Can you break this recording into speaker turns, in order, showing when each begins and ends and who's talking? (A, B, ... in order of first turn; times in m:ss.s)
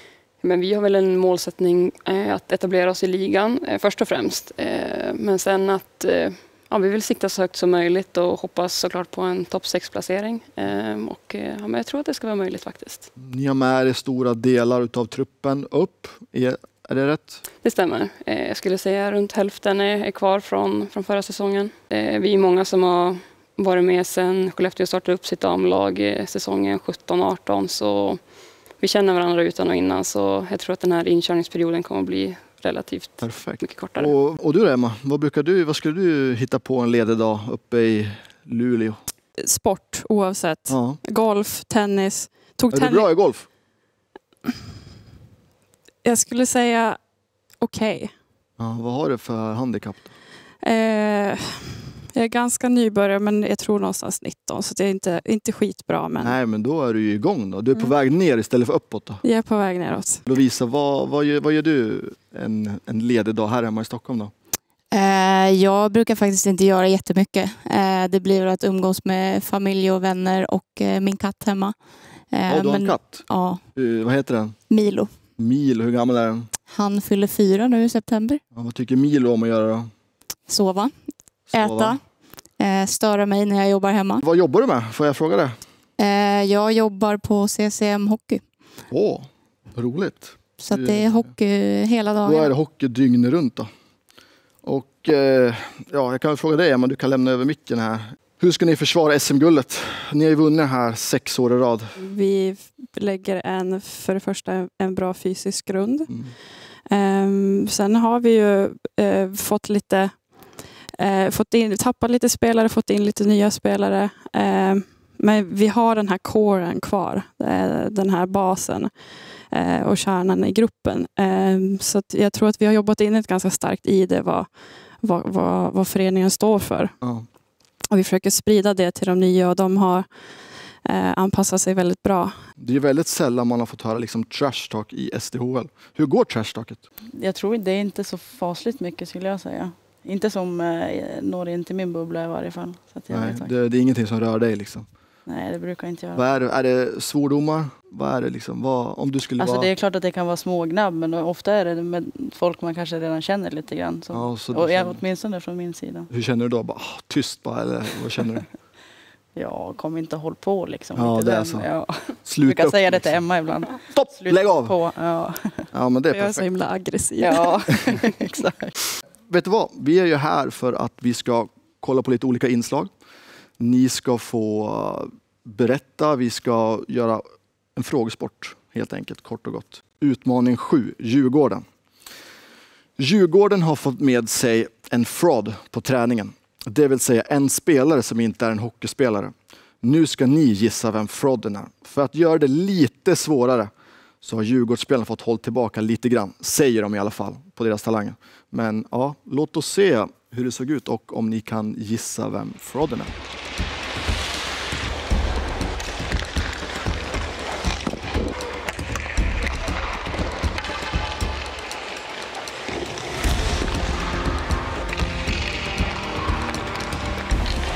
0:00.4-0:13.1 A
0:13.2-0:17.4 B
0:17.6-0:34.1 A
0:33.2-0:39.0 B
0:39.4-0:43.1 C
0:40.7-0:41.0 B
0:42.7-0:43.5 B
0:46.0-0:47.0 C
0:47.6-0:48.1 C
0:48.6-0:50.1 B
0:50.6-0:56.4 C
0:56.2-0:59.2 B
0:59.2-1:00.2 C
1:00.2-1:04.3 B
1:04.9-1:11.8 D
1:12.3-1:13.6 D
1:12.5-1:14.6 B
1:14.7-1:15.1 D
1:15.4-1:16.5 B
1:16.7-1:18.4 D
1:18.5-1:19.9 B
1:20.5-1:20.9 D
1:21.5-1:22.0 B
1:21.5-1:22.0 D
1:22.6-1:24.2 D
1:24.2-1:25.6 B
1:26.0-1:28.4 D
1:28.9-1:31.3 B
1:30.6-1:32.5 D
1:32.2-1:33.7 B
1:34.6-1:42.0 B
1:42.0-1:46.1 C
1:46.9-1:50.3 C
1:51.0-1:58.9 C
1:59.5-2:04.5 C
2:05.0-2:06.9 C
2:07.9-2:10.1 C
2:10.8-2:12.3 C
2:12.6-2:16.8 B
2:17.2-2:23.5 E
2:23.1-2:24.9 B
2:25.3-2:26.4 E
2:26.2-2:29.7 B
2:29.4-2:36.1 E
2:34.1-2:35.0 B
2:36.1-2:38.5 B
2:39.4-2:45.7 E
2:41.0-2:41.7 B
2:42.3-2:43.2 B
2:43.9-2:44.7 B
2:45.7-2:46.4 B
2:46.1-2:47.8 C
2:47.2-2:48.7 E
2:49.3-2:52.9 B
2:53.6-2:57.2 B
2:57.8-3:01.6 B
3:03.0-3:13.7 B
3:14.2-3:23.1 B